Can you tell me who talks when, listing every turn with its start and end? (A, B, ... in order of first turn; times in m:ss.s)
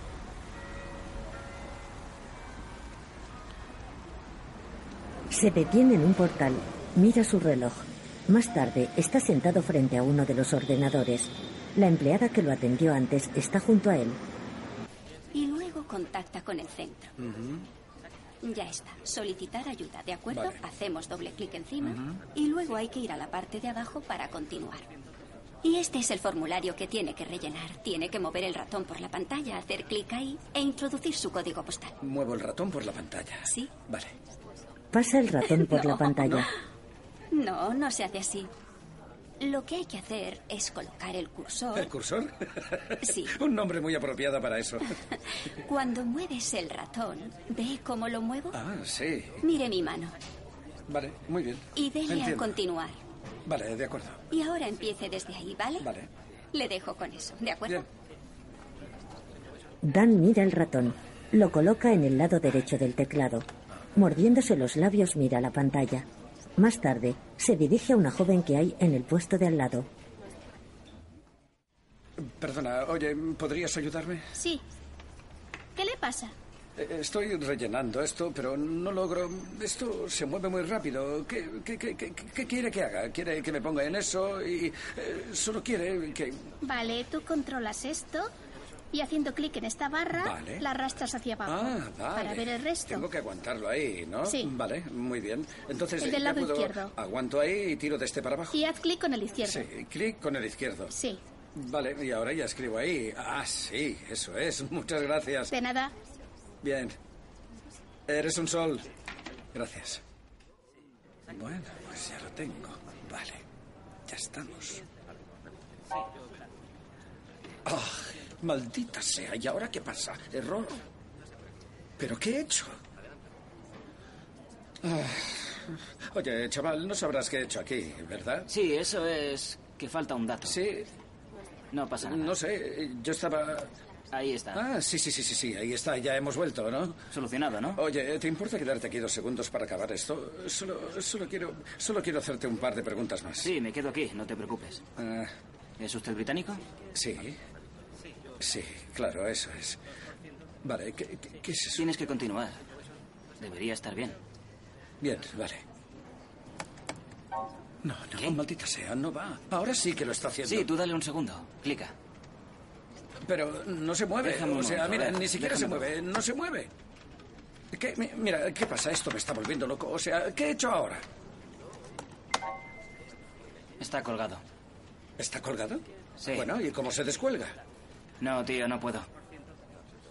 0:05.3-0:14.2 A
0:15.3-0:17.2 B
0:17.2-0:17.7 C
0:18.4-0:24.9 B
0:20.3-0:20.6 C
0:21.8-0:22.2 C
0:25.6-0:32.0 B
0:32.0-0:34.1 C
0:33.5-0:33.7 B
0:34.9-0:36.4 A
0:35.5-0:36.3 B
0:37.3-0:38.5 B
0:39.4-0:41.9 B
0:41.8-0:44.9 C
0:43.0-0:43.4 B
0:45.6-0:48.6 B
0:48.5-0:49.4 C
0:49.4-0:50.2 B
0:50.9-0:52.5 C
0:51.8-0:53.0 B
0:53.5-0:54.2 C
0:54.3-0:55.9 B
0:55.8-0:56.1 C
0:56.5-0:57.9 B
0:59.8-1:09.9 A
1:12.2-1:14.3 C
1:14.4-1:14.6 D
1:15.8-1:16.3 D
1:16.8-1:26.5 C
1:26.6-1:28.3 D
1:28.9-1:33.0 D
1:30.1-1:30.6 C
1:31.4-1:38.6 C
1:36.0-1:36.9 D
1:38.5-1:39.6 D
1:39.4-1:40.9 C
1:40.9-1:41.2 D
1:41.6-1:45.5 C
1:45.5-1:45.9 D
1:46.6-1:47.0 C
1:48.1-1:48.9 C
1:49.5-1:50.0 C
1:51.3-1:53.4 C
1:54.1-1:54.8 C
1:57.7-2:00.8 C
2:02.0-2:02.8 C
2:04.8-2:08.5 C
2:08.5-2:10.6 E
2:10.4-2:10.9 C
2:11.7-2:12.4 E
2:12.0-2:13.7 C
2:14.1-2:14.6 E
2:14.5-2:17.0 C
2:17.1-2:17.8 E
2:17.7-2:23.6 C
2:23.4-2:24.8 E
2:25.0-2:25.3 C
2:25.8-2:26.6 E
2:27.0-2:27.4 C
2:28.4-2:29.8 C
2:30.6-2:31.9 C
2:31.8-2:32.6 E
2:33.4-2:34.2 E
2:35.0-2:35.6 C
2:37.8-2:40.8 C
2:40.4-2:41.9 E
2:43.2-2:46.7 C
2:44.2-2:45.9 E
2:47.7-2:51.0 C
2:53.8-2:54.4 E
2:55.2-2:57.6 C
2:56.2-2:56.5 E
2:58.2-2:59.1 E